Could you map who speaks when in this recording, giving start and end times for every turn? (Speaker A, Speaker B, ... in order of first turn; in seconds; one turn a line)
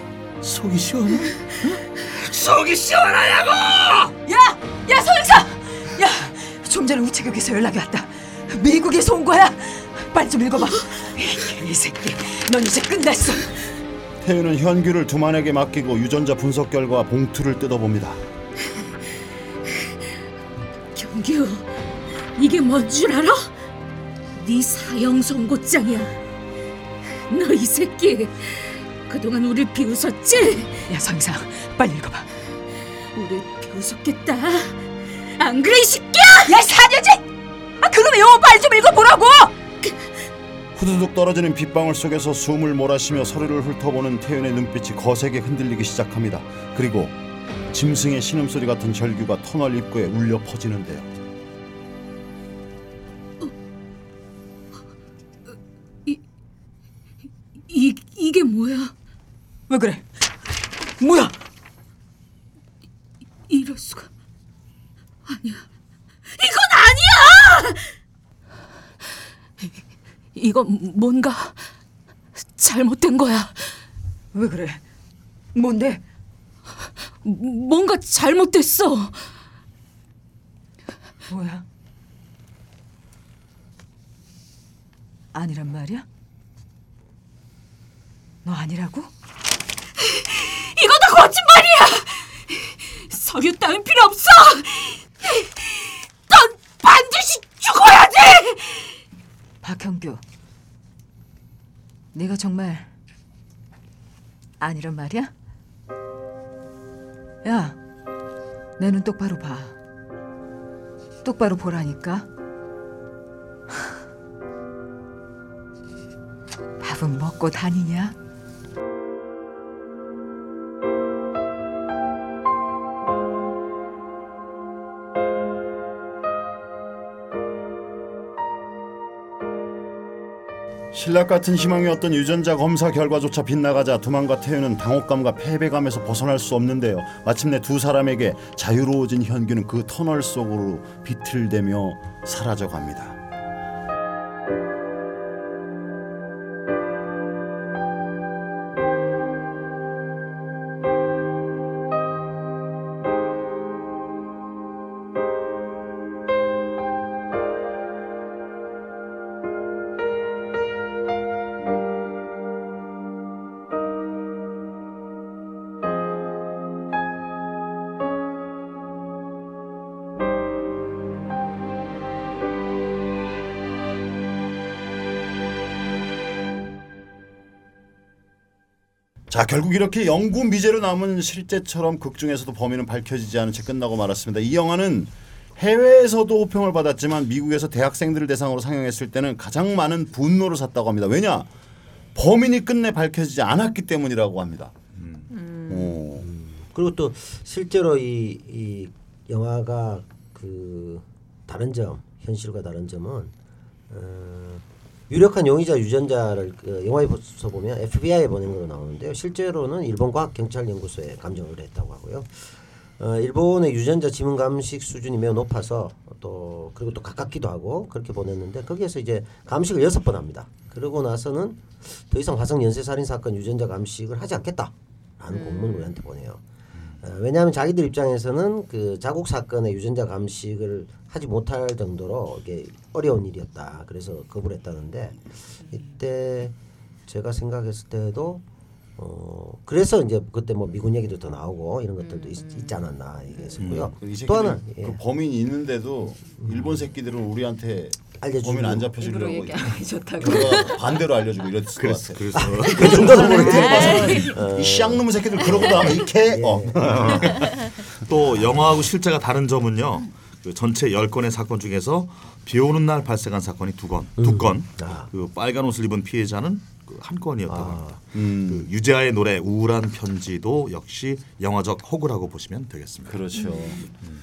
Speaker A: 0.4-4.1
Speaker B: 4.2-13.6
Speaker C: 14.2-18.2
Speaker D: 20.9-21.7
Speaker D: 22.3-23.5
Speaker D: 24.3-26.2
Speaker D: 27.3-30.9
Speaker B: 30.9-32.3
Speaker D: 33.0-36.5
Speaker B: 36.5-37.2
Speaker B: 37.8-39.5
Speaker C: 40.7-47.2
Speaker C: 47.7-51.1
Speaker D: 57.6-58.9
Speaker B: 59.7-60.1
Speaker B: 61.0-61.4
Speaker D: 63.5-64.1
Speaker D: 65.2-65.6
Speaker D: 66.3-67.9
Speaker D: 70.3-71.7
Speaker D: 72.5-73.8
Speaker B: 74.3-74.8
Speaker B: 75.5-76.0
Speaker D: 77.2-79.3
Speaker B: 81.3-81.6
Speaker B: 85.3-86.0
Speaker B: 88.4-89.1
Speaker D: 90.0-95.7
Speaker D: 96.3-99.0
Speaker B: 99.6-100.2
Speaker B: 102.1-102.9
Speaker B: 104.6-105.3
Speaker B: 107.4-107.8
Speaker B: 108.8-109.7
Speaker B: 111.2-112.3
Speaker B: 116.8-118.2
Speaker C: 130.9-143.2
Speaker C: 179.3-191.5
Speaker C: 192.1-194.7
Speaker C: 195.5-196.3
Speaker E: 196.2-203.3
Speaker E: 203.9-226.4
Speaker E: 227.0-236.5
Speaker E: 237.1-238.4
Speaker E: 239.0-245.0
Speaker A: 243.6-243.9
Speaker C: 243.7-257.4
Speaker E: 246.4-246.8
Speaker E: 248.2-248.9
Speaker B: 249.0-250.8
Speaker A: 251.8-254.3
Speaker E: 252.3-257.4
Speaker B: 253.5-253.9
Speaker A: 256.8-273.2
Speaker E: 264.2-265.1
Speaker E: 267.5-268.0
Speaker C: 268.1-268.7
Speaker C: 273.0-273.8